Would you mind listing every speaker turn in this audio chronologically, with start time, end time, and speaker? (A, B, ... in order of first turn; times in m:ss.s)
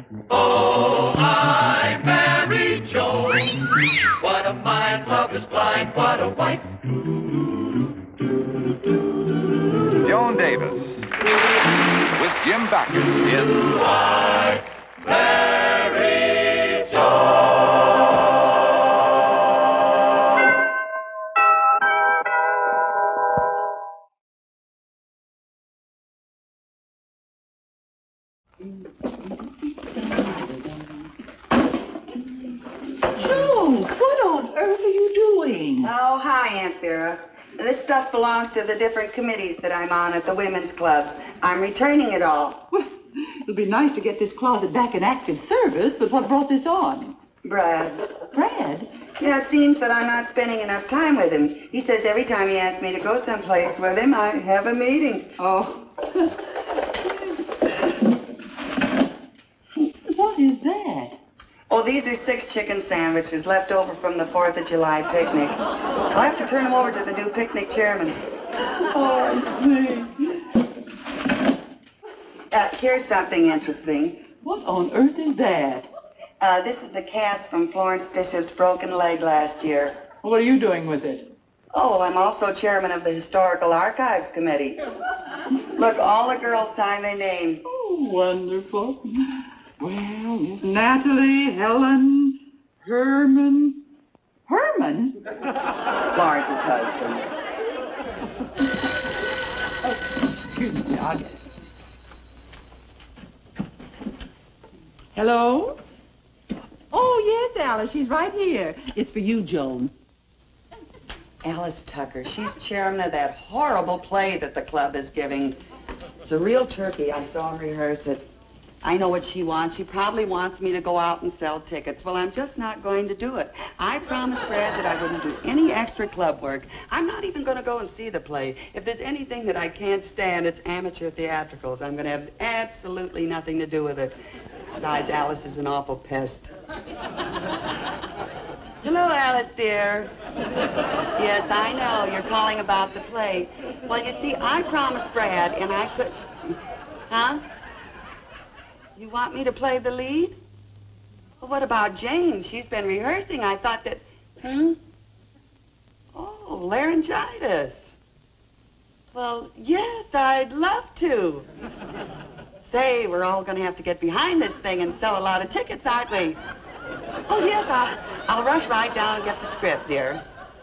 0:00.3-0:06.8 A
0:10.0-0:11.0 B
0:12.1-0:13.6 B
0:14.0-0:17.0 A
0:33.1-0:35.9 C
0:35.8-0:42.7 D
0:42.7-0:47.2 C
0:47.4-0:48.1 D
0:48.3-0:48.9 C
0:49.2-0:55.3 D
0:55.4-0:56.2 C
1:00.1-1:01.2 C
1:01.7-1:08.2 D
1:08.9-1:10.2 C
1:12.5-1:14.2 D
1:14.4-1:15.9 C
1:16.4-1:20.0 D
1:20.2-1:21.3 C
1:21.7-1:24.8 D
1:25.7-1:27.6 D
1:27.7-1:29.1 C
1:29.8-1:33.8 C
1:34.5-1:35.1 C
1:36.1-1:37.3 D
1:39.8-1:41.4 C
1:45.1-1:45.8 C
1:46.9-1:49.9 C
1:51.4-1:55.6 D
1:56.2-1:58.2 D
1:58.8-2:14.2 D
2:14.7-2:16.5 D
2:18.8-2:20.1 D
2:21.2-2:26.6 D
2:27.1-2:27.4 D
2:29.0-2:30.4 D
2:31.4-2:34.8 D
2:36.1-2:37.9 D
2:39.1-2:41.5 D
2:42.6-2:46.4 D
2:47.3-2:50.2 D